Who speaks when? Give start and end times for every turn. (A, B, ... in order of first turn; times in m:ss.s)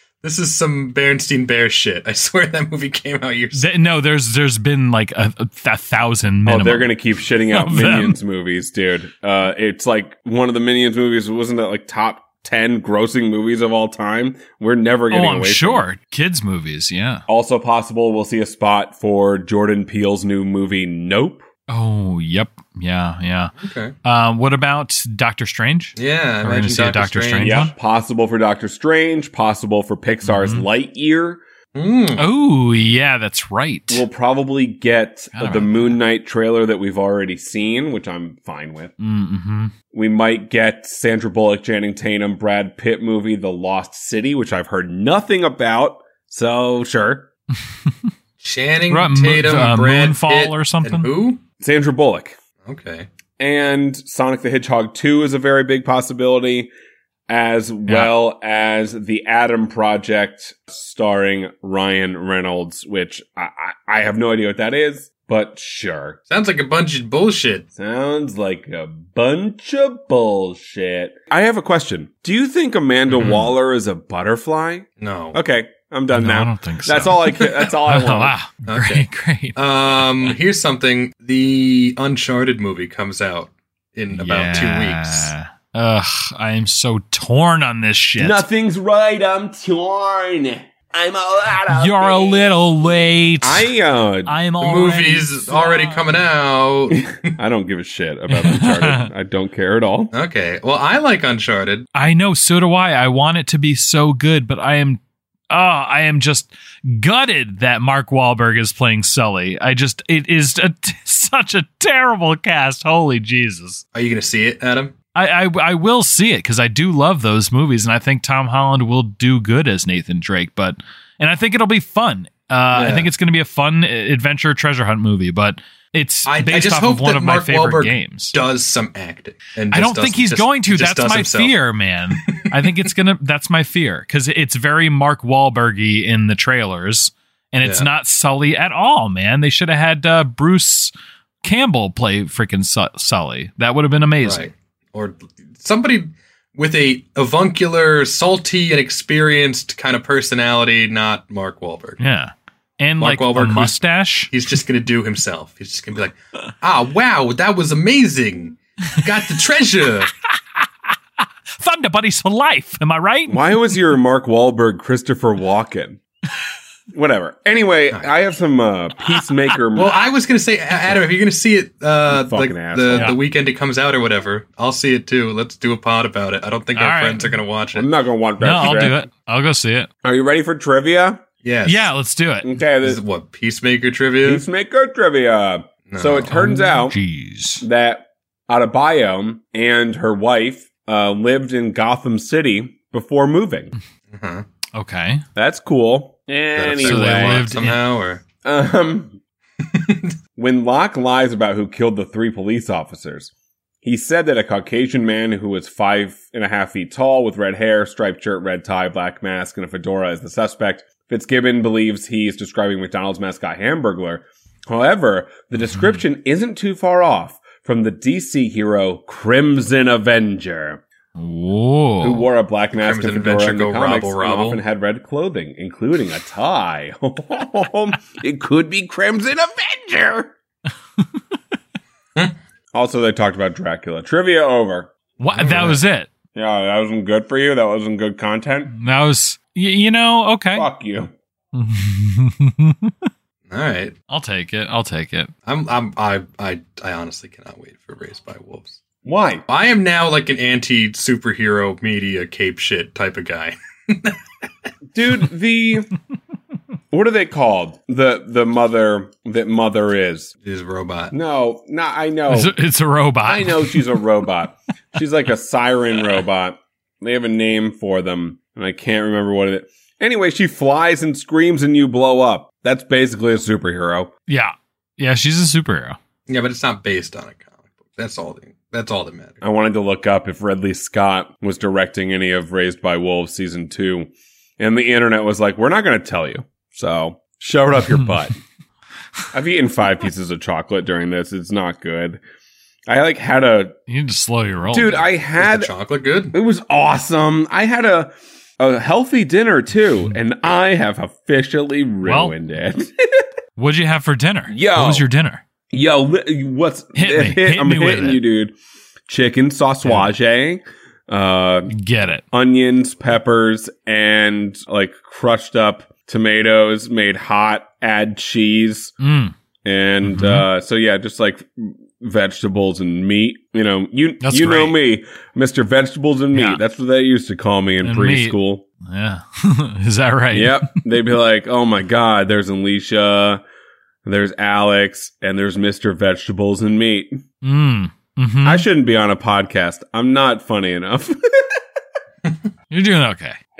0:00.2-0:03.7 A
0:03.5-0:06.9 B
0:06.4-0:15.9 C
0:07.5-0:08.1 B
0:15.1-0:17.2 B
0:17.3-0:21.4 C
0:21.7-0:27.7 B
0:23.6-0:23.9 A
0:26.0-0:27.7 A
0:27.4-0:31.4 C
0:30.2-0:30.6 B
0:31.7-0:32.2 A
0:32.2-0:34.0 B
0:33.9-0:38.9 C
0:35.3-0:35.9 B
0:39.0-0:39.7 B
0:39.9-0:47.3 C
0:48.4-0:51.4 A
0:48.9-0:51.1 B
0:51.6-0:52.4 C
0:52.6-0:53.1 A
0:53.4-0:56.7 C
0:57.3-1:06.2 C
1:06.3-1:07.7 A
1:07.8-1:18.3 C
1:13.1-1:13.5 B
1:15.0-1:15.4 A
1:16.1-1:19.6 B
1:18.7-1:25.3 A
1:24.1-1:28.4 B
1:28.2-1:32.6 C
1:31.7-1:33.7 B
1:33.4-1:34.3 C
1:34.3-1:36.2 B
1:34.6-1:37.3 A
1:37.4-1:40.1 C
1:38.3-1:39.1 B
1:40.1-1:41.9 A
1:41.9-1:53.8 B
1:53.9-1:54.9 A
1:55.1-2:08.4 B
2:02.7-2:03.1 A
2:06.2-2:12.5 A
2:09.7-2:20.9 B
2:17.6-2:17.9 A
2:21.4-2:24.5 B
2:24.2-2:32.0 A
2:32.0-2:34.3 B
2:33.0-2:33.8 A
2:34.3-2:40.1 A
2:40.2-2:43.4 B
2:43.3-2:46.0 C
2:46.9-2:50.0 C
2:49.7-2:57.9 A
2:52.1-2:53.1 C
2:56.7-2:57.3 B
2:57.7-2:59.0 C
2:58.4-2:59.9 B
3:00.0-3:01.2 C
3:01.4-3:01.9 A
3:01.6-3:02.5 B
3:02.4-3:03.0 C
3:02.8-3:04.4 A
3:04.2-3:07.0 C
3:05.9-3:06.3 A
3:06.3-3:07.6 B
3:07.6-3:13.7 C
3:14.1-3:14.4 A
3:14.7-3:15.2 B
3:15.4-3:17.6 C
3:16.5-3:18.2 A
3:16.8-3:17.8 B
3:18.4-3:19.2 C
3:19.6-3:20.1 A
3:20.4-3:23.3 C
3:23.8-3:40.8 C
3:41.2-3:42.2 B
3:42.0-3:50.3 C
3:42.8-3:44.6 A
3:52.7-3:54.9 C
3:55.2-3:56.1 B
3:55.3-3:55.8 A
3:56.3-3:58.7 C
3:58.7-4:00.6 B
4:00.5-4:01.1 C
4:01.5-4:02.9 B
4:03.5-4:03.9 A
4:04.1-4:05.3 B
4:05.4-4:08.8 A
4:09.0-4:09.4 C
4:09.5-4:14.2 A
4:14.9-4:15.9 C
4:16.9-4:20.3 C
4:20.4-4:21.1 A
4:21.1-4:22.5 C
4:22.3-4:24.0 B
4:23.2-4:34.1 C
4:34.3-4:36.0 B
4:36.3-4:39.4 A
4:39.4-4:48.4 C
4:49.3-4:52.2 C
4:52.9-4:53.8 C
4:53.9-4:55.0 B
4:54.7-4:55.7 C
4:55.4-4:56.4 A
4:56.3-5:03.3 C
5:02.0-5:02.3 B
5:03.6-5:05.4 B
5:04.5-5:05.0 C
5:05.7-5:08.5 C
5:07.0-5:08.2 B
5:09.1-5:11.7 C
5:11.7-5:12.2 B
5:12.3-5:18.9 C
5:19.0-5:19.3 B
5:19.6-5:28.7 C
5:20.0-5:20.4 B
5:24.2-5:24.7 B
5:26.3-5:26.6 B
5:27.8-5:30.7 B
5:30.3-5:33.4 C
5:34.0-5:37.2 C
5:37.4-5:38.6 B
5:38.4-5:41.6 C
5:42.7-5:43.4 B